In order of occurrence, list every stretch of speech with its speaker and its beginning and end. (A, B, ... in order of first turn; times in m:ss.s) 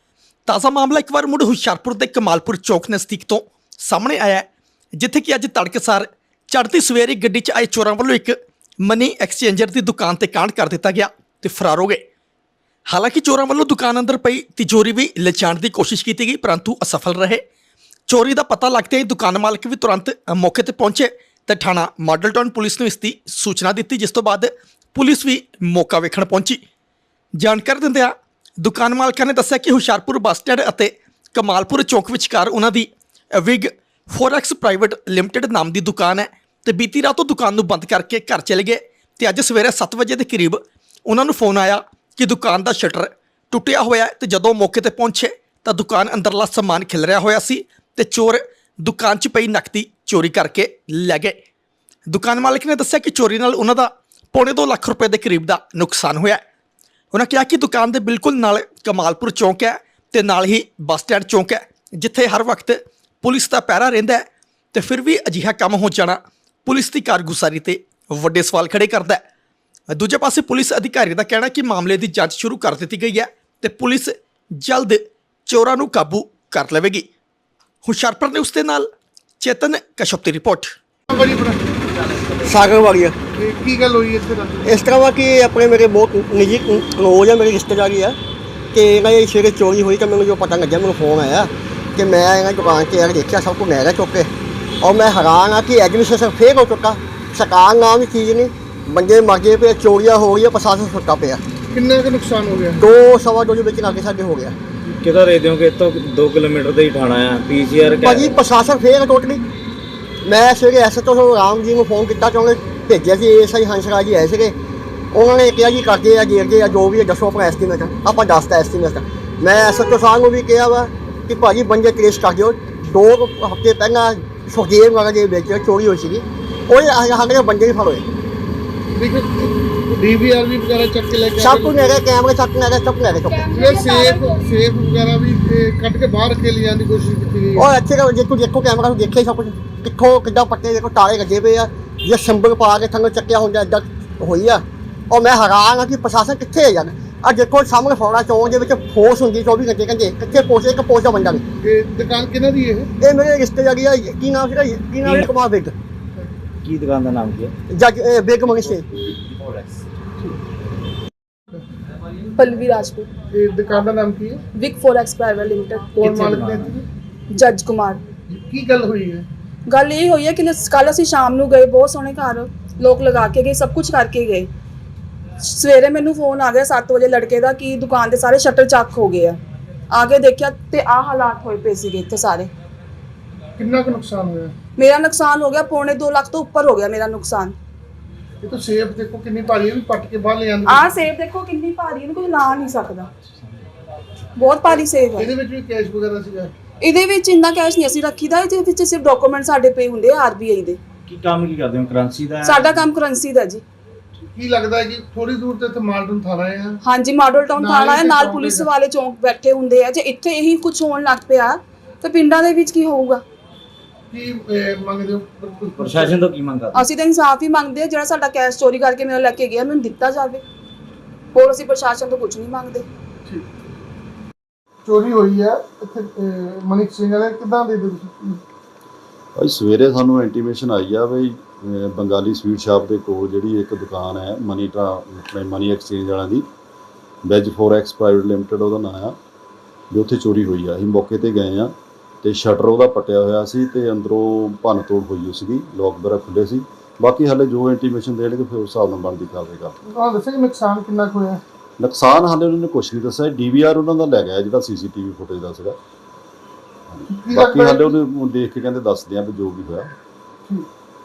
0:00.4-0:04.4 A
0:05.0-0:12.0 A
0:12.9-0:17.4 A
0:18.1-0:26.6 A
0:27.4-0:51.4 A
0:52.1-0:56.4 A
0:57.1-1:09.2 A
1:09.9-1:17.0 A
1:17.8-1:18.9 A
1:19.4-1:20.7 A
1:21.1-1:21.6 B
1:22.4-1:23.2 C
1:23.4-1:24.7 B
1:24.6-1:28.2 C
1:28.7-1:34.3 C
1:34.8-1:41.4 C
1:41.7-1:42.8 B
1:42.8-1:44.6 C
1:45.0-1:48.4 D
1:48.0-1:49.4 C
1:50.2-1:54.6 C
1:55.1-2:08.0 C
2:08.9-2:11.8 B
2:11.4-2:13.6 C
2:13.3-2:14.5 E
2:13.5-2:17.7 B
2:17.6-2:31.4 C
2:31.6-2:32.9 B
2:33.0-2:35.8 C
2:36.6-2:37.5 D
2:37.7-2:38.9 C
2:39.4-2:39.7 D
2:42.4-2:43.1 E
2:43.3-2:44.4 B
2:44.5-2:46.0 E
2:46.0-2:46.8 B
2:46.0-2:46.7 D
2:47.3-2:48.0 E
2:48.3-2:49.2 B
2:49.7-2:54.5 E
2:55.4-2:59.4 E
2:59.9-3:02.5 E
3:03.6-3:04.5 B
3:04.8-3:07.5 E
3:08.4-3:11.0 B
3:10.7-3:13.1 E
3:14.4-3:15.3 E
3:15.2-3:16.5 B
3:16.8-3:20.8 E
3:21.1-3:22.8 D
3:22.4-3:23.6 E
3:24.3-3:26.8 B
3:26.8-3:33.2 E
3:27.5-3:28.7 B
3:34.1-3:36.2 B
3:35.8-3:36.8 D
3:36.7-3:40.4 E
3:41.3-3:42.9 E
3:44.8-3:48.4 B
3:49.4-3:56.5 F
3:57.2-3:59.2 F
3:59.9-4:09.8 F
4:09.9-4:11.4 B
4:11.8-4:15.8 F
4:16.9-4:19.9 F
4:17.1-4:17.9 B